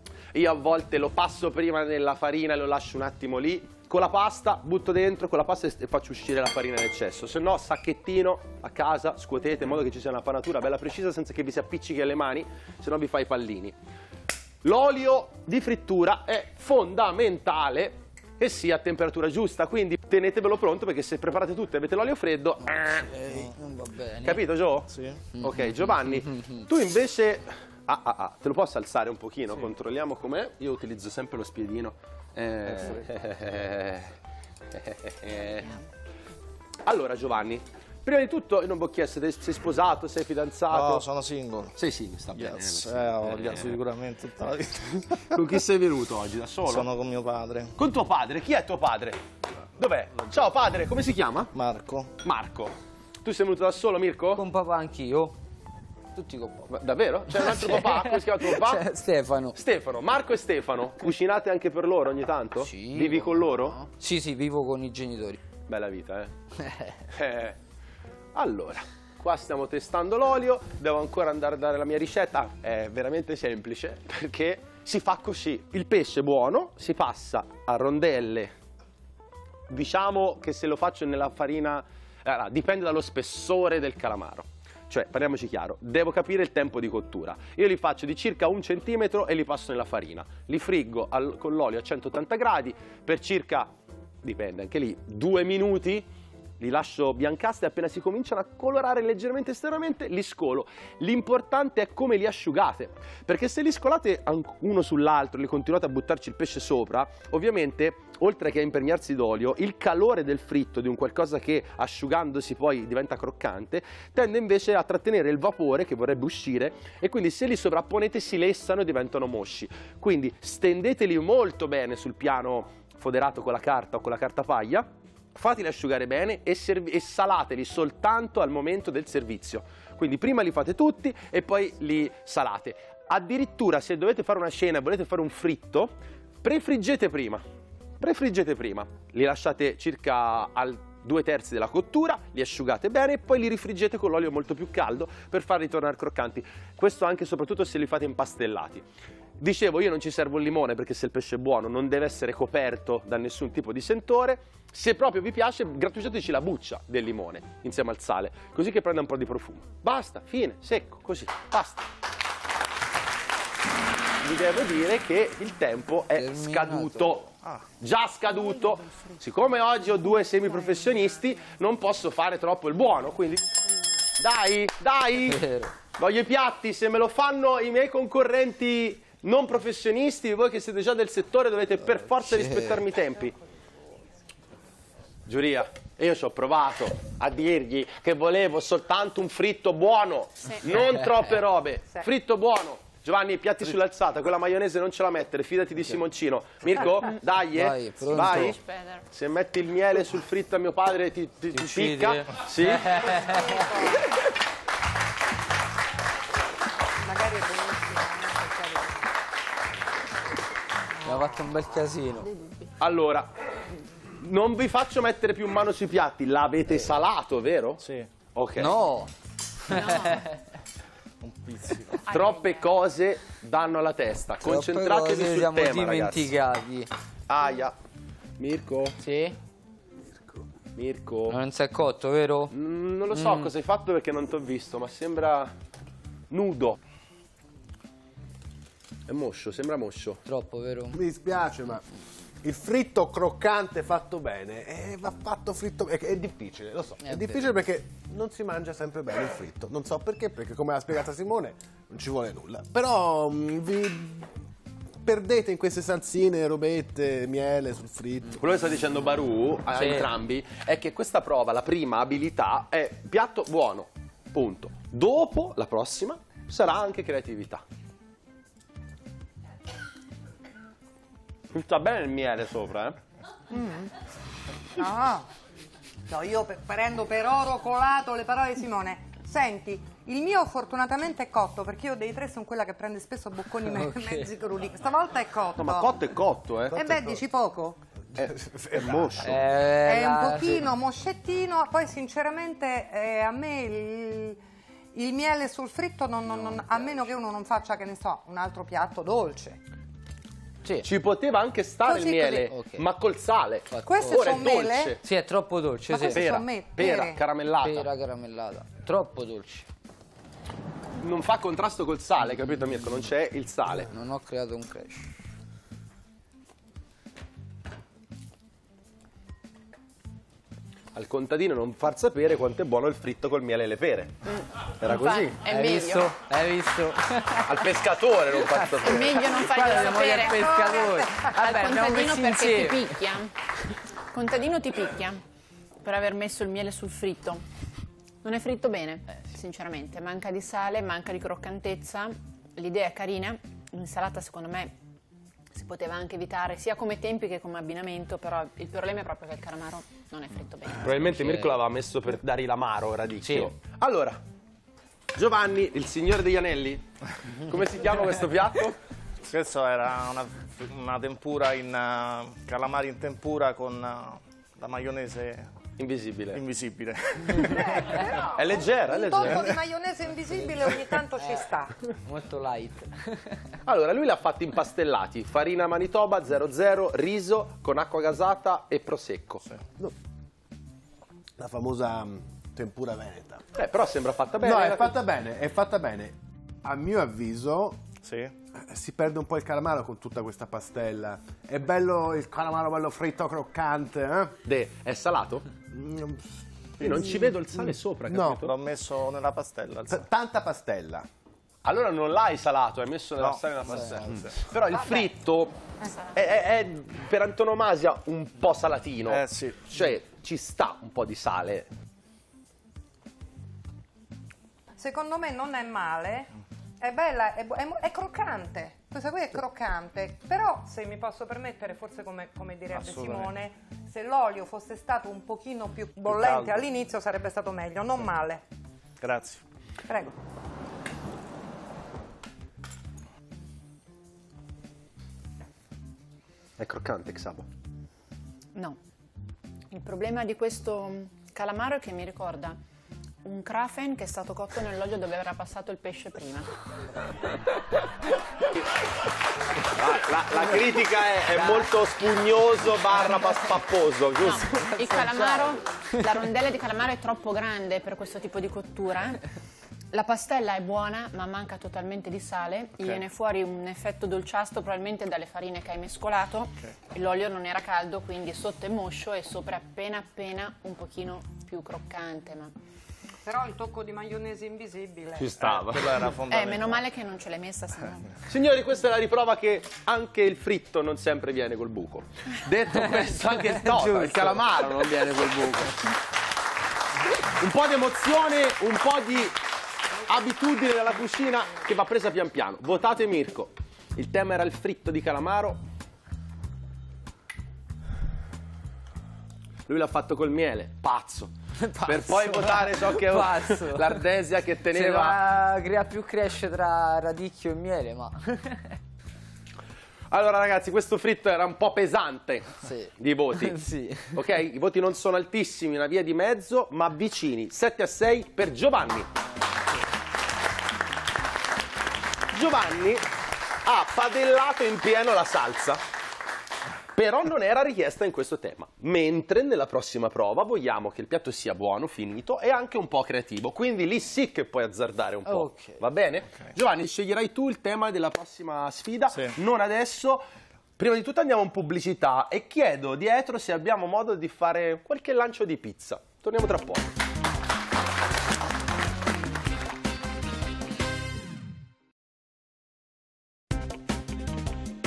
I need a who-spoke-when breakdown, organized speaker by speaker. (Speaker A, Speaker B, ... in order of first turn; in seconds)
Speaker A: 0.3-13.8, 14.6-23.1, 24.2-34.1, 34.7-35.8, 36.9-41.0, 41.8-43.8, 45.3-46.9, 47.8-49.2, 49.8-51.5, 52.2-54.4, 56.7-58.9, 59.5-63.8, 65.7-66.3, 67.1-67.6, 68.3-78.5, 79.7-93.7, 94.2-96.1, 96.6-135.9, 136.4-137.4, 138.0-148.8, 149.4-161.9, 164.2-167.3, 167.8-173.5, 174.2-175.4, 175.9-183.3, 185.2-198.6, 199.1-203.1, 212.8-213.3, 214.2-217.8, 218.3-218.8, 222.1-226.3, 227.3-227.7, 228.4-229.0, 230.7-231.4, 232.5-235.5, 236.3-236.8, 239.1-240.2, 258.4-267.6, 271.5-273.0, 285.6-287.2, 288.1-289.4, 300.8-305.0, 306.1-307.9, 311.0-313.9, 320.9-324.1, 324.7-325.4, 327.4-329.4, 350.8-354.2, 355.1-358.8, 365.8-366.4, 368.3-369.5, 373.6-379.4, 383.5-384.9, 394.4-395.5, 396.8-398.5, 401.6-405.6, 406.1-411.7, 436.6-437.4, 449.7-454.7, 475.2-476.1, 478.3-485.8, 487.4-489.4, 490.1-495.6, 499.7-505.2, 510.1-513.6, 514.1-519.1, 522.3-523.0, 523.6-525.8, 526.9-540.2, 540.8-546.9
Speaker B: 23.0-24.4, 25.4-26.6, 54.4-55.3, 56.1-56.7, 57.3-59.6, 62.5-65.4, 66.6-67.0, 166.1-167.2, 175.3-175.7, 182.2-182.8, 197.4-198.6, 201.5-203.6, 211.0-212.3, 218.6-219.1, 219.6-220.4, 224.4-226.9, 229.0-229.4, 231.3-232.5, 233.1-233.5, 240.2-241.0, 247.0-247.5, 259.7-260.1, 283.7-284.3, 289.2-290.7, 302.5-302.9, 303.7-304.5, 305.0-306.4, 307.6-309.7, 313.9-315.1, 325.4-327.7, 328.4-333.0, 351.2-351.5, 353.2-353.5, 371.2-371.4, 372.0-373.4, 454.6-455.2, 483.5-484.6, 501.6-504.0, 504.7-508.8, 512.6-514.2, 535.3-535.8
Speaker C: 23.3-23.5, 24.9-25.2, 40.7-41.8, 42.3-45.5, 46.6-47.7, 51.5-52.2, 217.8-218.1, 221.2-222.0, 359.2-365.5, 366.3-368.1, 388.0-388.3, 398.4-400.1, 403.2-404.4, 409.1-409.7, 422.7-423.3, 426.1-426.7, 429.0-429.4, 475.4-476.8
Speaker D: 198.2-199.0, 212.4-212.7, 219.7-220.2, 222.1-222.7, 324.2-326.1, 328.8-330.6, 331.2-333.4, 334.1-335.2, 335.8-337.4, 338.2-344.7, 345.5-351.1, 439.7-442.6, 443.2-446.5, 454.2-459.2, 459.9-472.5, 476.3-478.1
Speaker E: 203.1-204.1, 207.0-209.1, 273.5-273.9, 274.7-275.3, 276.1-286.0, 286.7-287.8, 289.6-294.4, 294.9-299.6, 301.8-302.5, 303.8-305.0, 305.9-307.2, 329.4-331.4, 367.5-371.9, 414.8-428.4, 429.9-430.1, 473.2-475.3
Speaker F: 240.9-241.8, 242.4-254.3, 255.0-258.4, 288.1-289.5, 381.4-383.4, 384.4-387.8, 388.6-394.3, 395.7-396.2, 398.1-398.4, 399.9-401.1